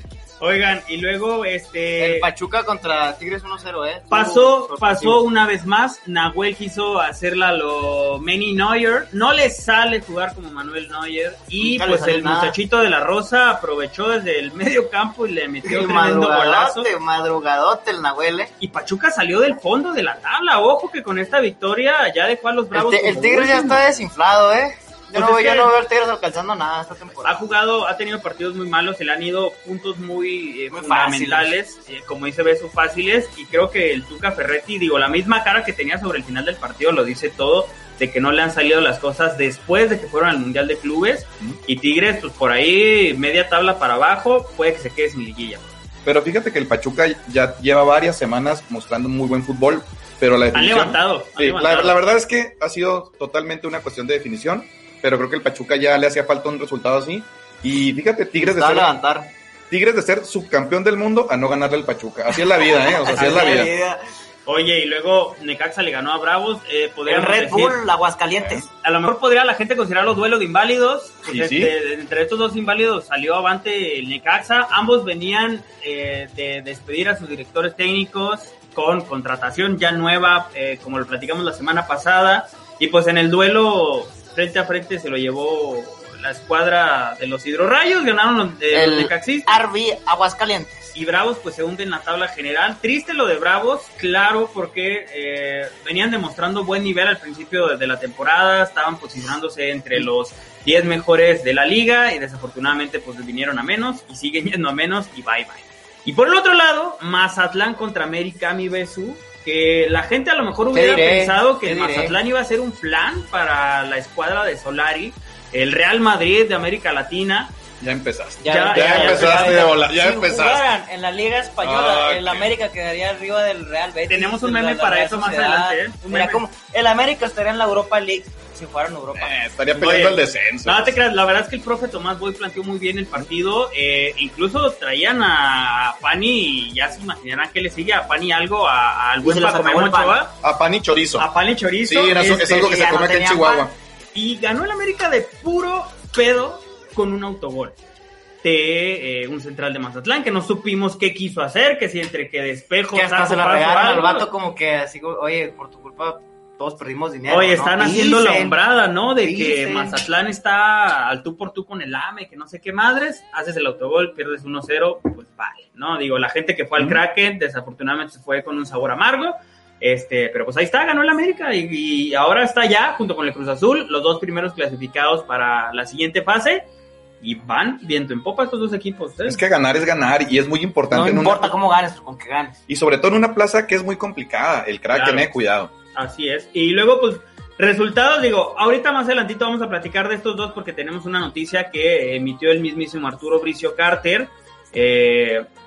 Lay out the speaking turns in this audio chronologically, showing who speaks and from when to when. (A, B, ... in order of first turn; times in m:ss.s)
0:00.4-0:02.3 A
0:02.0-0:05.2 B
0:04.1-0:16.9 A
0:11.6-0:12.6 B
0:15.6-0:18.5 B
0:18.6-0:23.8 A
0:22.7-0:27.4 B
0:25.1-0:25.7 A
0:27.2-0:45.8 A
0:30.7-0:31.6 B
0:46.0-0:58.9 C
0:50.5-0:52.0 A
0:58.4-0:59.3 B
0:59.7-1:03.7 C
1:02.6-1:04.0 B
1:03.1-1:03.6 A
1:04.4-1:07.8 A
1:07.0-1:08.7 B
1:08.4-1:08.6 C
1:08.8-1:29.5 A
1:11.2-1:11.7 C
1:28.7-1:30.9 B
1:30.9-1:57.6 A
1:50.7-1:52.1 B
1:57.8-2:00.6 C
1:58.4-2:09.4 B
1:58.5-1:59.8 A
2:01.6-2:02.5 C
2:04.1-2:06.4 A
2:09.1-2:11.0 C
2:09.8-2:20.3 A
2:19.2-2:20.2 B
2:20.4-2:21.3 C
2:21.2-2:22.8 A
2:21.8-2:23.7 C
2:22.4-2:23.7 B
2:24.1-2:27.8 A
2:28.4-2:34.3 A
2:32.9-2:38.6 B
2:37.3-2:56.7 A
2:39.2-2:40.0 B
2:57.2-2:59.4 A
2:59.2-3:01.5 C
3:00.9-3:02.6 B
3:02.7-3:05.7 C
3:04.9-3:05.3 A
3:05.9-3:15.4 A